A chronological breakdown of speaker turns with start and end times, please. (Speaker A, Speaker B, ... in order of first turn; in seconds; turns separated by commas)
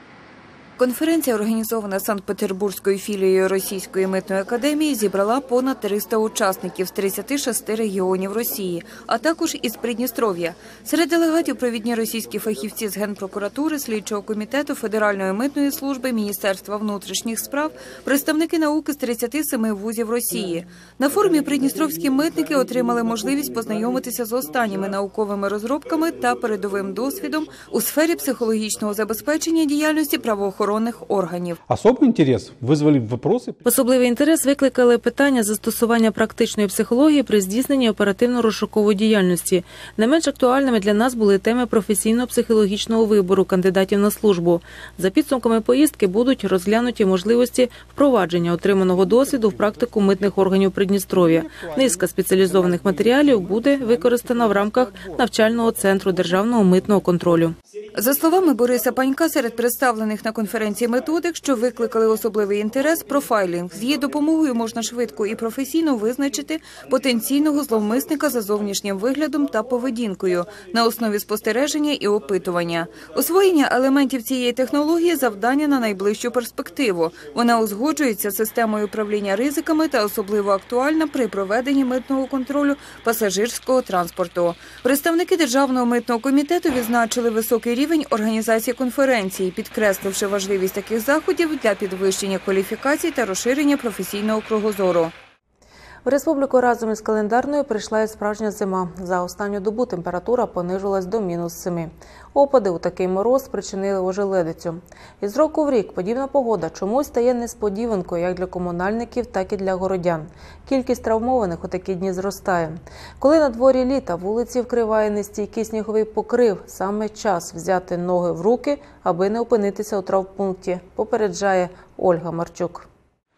Speaker A: 0.8-31.6, Speaker B: 31.7-33.6, Speaker C: 33.6-57.5, Speaker B: 51.4-51.9, Speaker B: 52.8-54.2, Speaker A: 57.9-95.1, Speaker C: 96.0-122.9